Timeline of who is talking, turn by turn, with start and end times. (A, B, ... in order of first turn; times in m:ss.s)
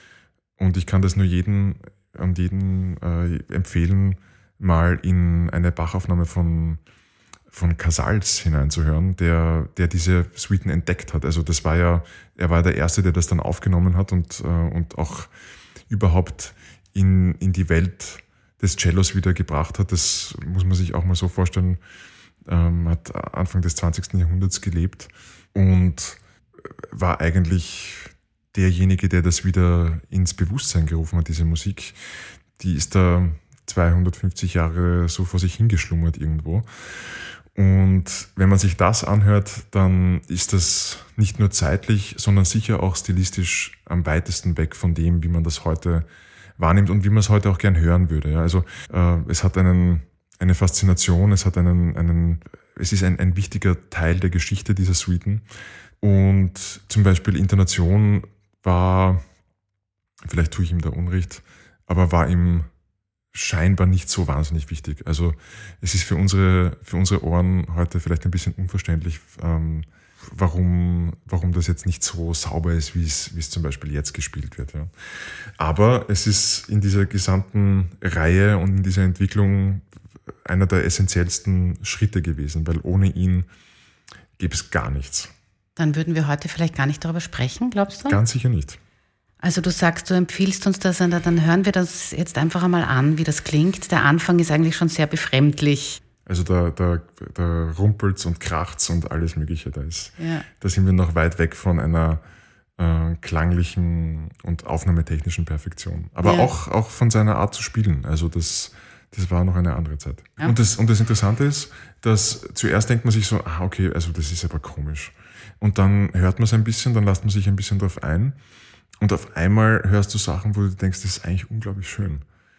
0:00.6-0:06.8 A
0:07.5-0:15.3 A
0:15.9-0:21.8 A
0:22.4-0:32.0 A
0:32.6-0:55.4 A
0:56.0-0:59.2 A
1:00.2-1:02.7 A
1:03.3-1:19.8 A
1:20.4-1:23.5 A
1:24.4-1:25.3 A
1:25.8-1:28.2 B
1:28.0-1:28.8 A
1:29.4-1:36.0 B
1:36.2-1:42.2 A
1:40.2-1:40.4 B
1:42.8-1:58.4 A
1:46.2-1:46.5 B
1:59.0-2:02.2 A